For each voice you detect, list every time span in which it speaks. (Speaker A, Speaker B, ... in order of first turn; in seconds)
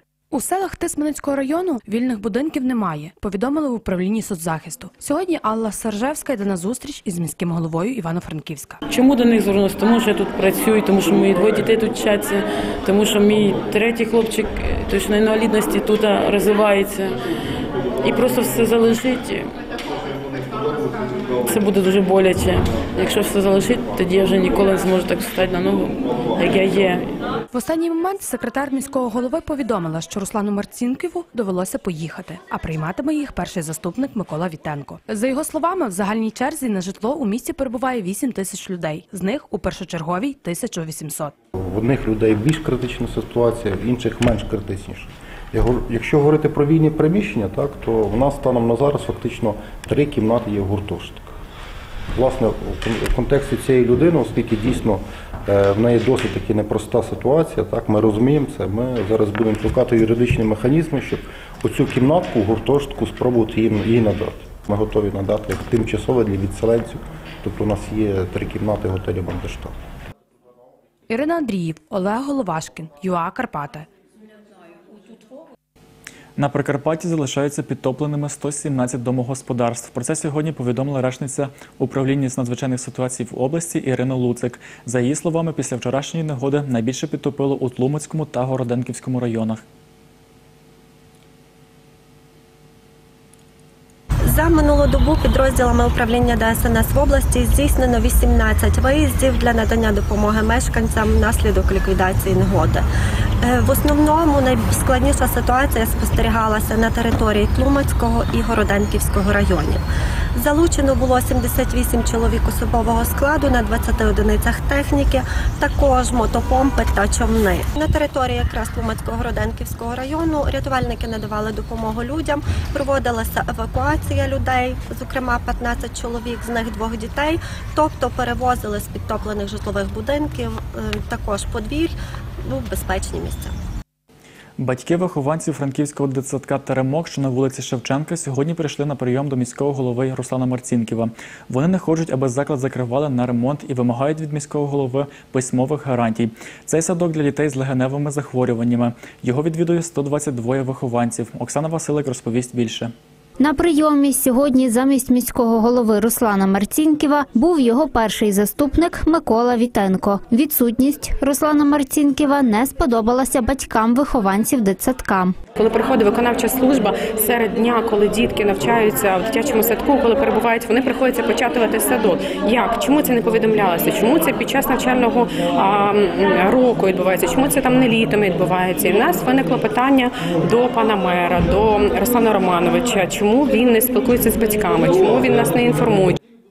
Speaker A: 0.3-8.8, 27.5-41.3, 71.1-73.9
Speaker B: 8.9-17.1, 18.0-19.5, 21.5-27.1
Speaker C: 41.6-51.3, 52.1-69.7
Speaker D: 76.4-89.6, 134.6-152.9
Speaker E: 94.3-102.9, 103.4-109.8, 110.4-133.6
Speaker F: 153.4-165.4
Speaker G: 165.6-186.2